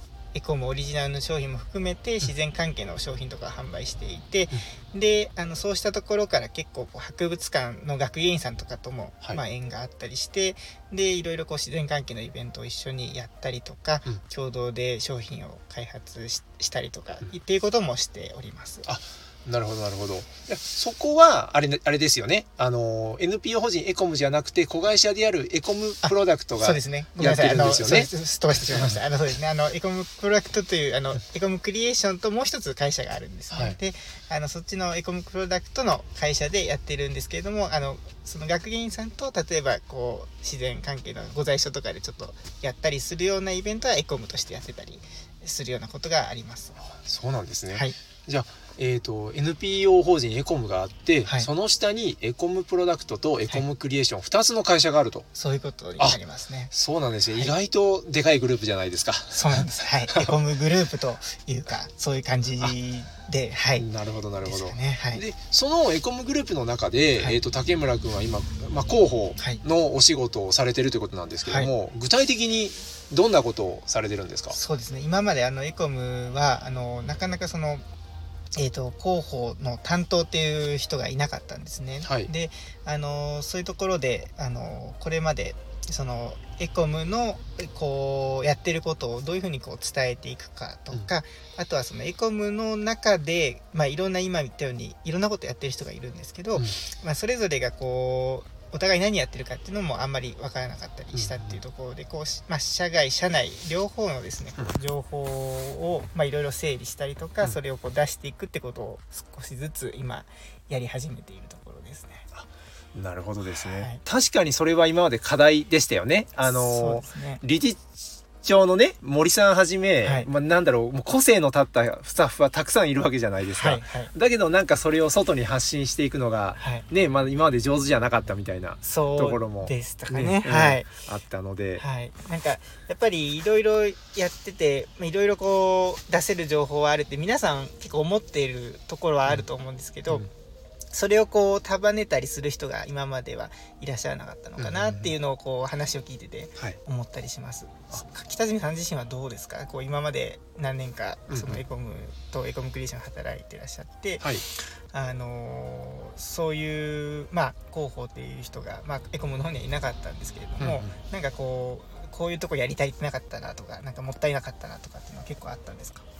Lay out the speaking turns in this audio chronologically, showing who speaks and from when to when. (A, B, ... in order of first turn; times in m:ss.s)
0:00.3-0:18.9 A
0:18.8-0:28.1 B
0:26.0-0:46.9 A
0:28.7-0:29.0 B
0:33.5-0:33.8 B
0:47.0-0:55.3 B
0:55.3-0:56.7 A
0:56.7-1:00.3 B
0:59.3-1:03.8 A
1:03.8-1:14.6 B
1:04.4-1:05.2 A
1:11.4-1:11.7 A
1:14.5-1:17.8 A
1:18.6-1:52.2 A
1:22.0-1:22.3 B
1:41.1-1:41.6 B
1:52.3-1:57.9 B
1:53.4-1:54.0 A
1:56.4-1:57.4 A
1:58.4-2:11.8 B
2:00.0-2:00.3 A
2:03.5-2:04.1 A
2:06.6-2:06.9 A
2:08.8-2:10.9 A
2:11.8-2:20.3 A
2:20.9-2:46.0 A
2:24.6-2:25.1 B
2:31.3-2:31.6 B
2:40.6-2:40.9 B